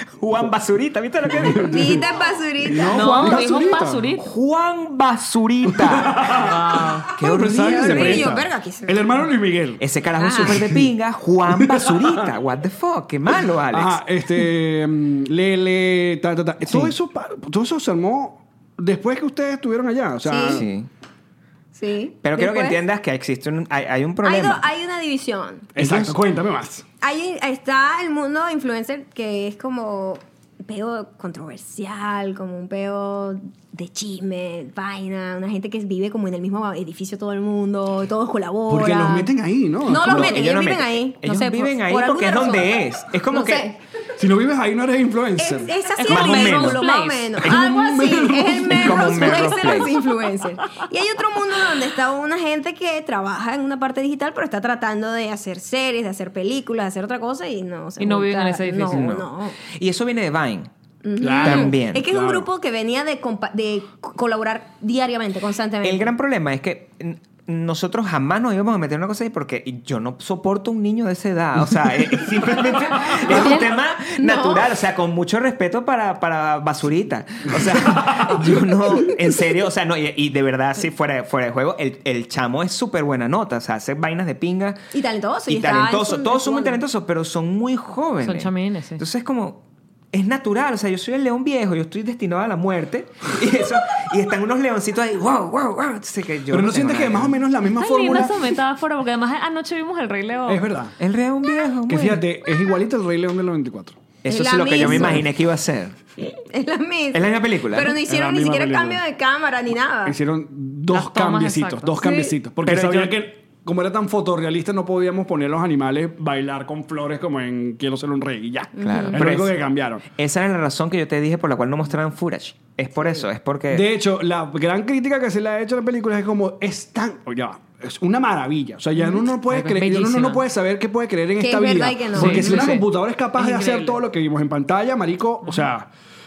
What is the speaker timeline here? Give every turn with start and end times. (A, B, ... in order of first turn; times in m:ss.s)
0:00.1-0:02.1 A
0:01.3-0:02.0 B
0:01.7-0:03.4 C
0:02.6-0:04.0 B
0:02.9-0:04.2 D
0:03.0-0:03.4 A
0:04.2-0:06.4 A
0:05.7-0:09.8 B
0:06.4-0:07.1 D
0:07.2-0:08.4 A
0:07.4-0:09.1 C
0:09.8-0:14.0 A
0:10.2-0:10.6 C
0:10.4-0:10.9 B
0:11.5-0:12.3 B
0:13.7-0:20.7 B
0:16.6-0:16.9 A
0:20.2-0:20.6 C
0:20.5-0:20.9 A
0:21.8-0:22.8 C
0:22.2-0:24.7 A
0:24.2-0:25.7 C
0:25.8-0:26.8 B
0:25.8-0:26.2 A
0:27.0-0:39.3 C
0:38.7-0:40.4 B
0:39.8-0:43.8 C
0:40.0-0:43.7 A
0:44.2-0:45.7 B
0:45.4-0:59.6 C
0:46.0-0:47.4 D
0:46.1-0:46.8 A
0:47.4-0:48.1 A
0:47.5-0:49.4 B
0:48.7-0:50.0 A
0:58.0-0:59.1 D
0:58.9-1:00.7 A
1:01.0-1:06.1 C
1:01.2-1:02.5 B
1:01.4-1:02.1 A
1:05.8-1:24.9 A
1:13.2-1:14.7 C
1:17.9-1:18.4 B
1:24.9-1:26.8 C
1:25.5-1:29.6 A
1:28.2-1:29.0 D
1:30.1-1:37.4 A
1:36.5-1:38.4 B
1:37.8-1:40.6 D
1:40.5-1:41.0 B
1:41.0-1:42.2 A
1:41.9-1:44.0 B
1:44.2-1:46.0 A
1:44.3-1:45.3 C
1:44.8-1:45.2 B
1:46.2-1:50.2 C
1:47.1-1:48.0 A
1:48.1-1:49.0 B
1:50.0-2:00.0 B
1:50.9-1:52.0 D
1:52.0-1:52.3 C
1:52.6-1:53.2 A
1:58.8-1:59.2 C
1:58.8-2:03.9 A
2:03.7-2:15.9 B
2:09.0-2:10.4 D
2:11.4-2:12.7 C
2:12.2-2:12.8 D
2:12.3-2:12.8 A
2:13.4-2:14.0 D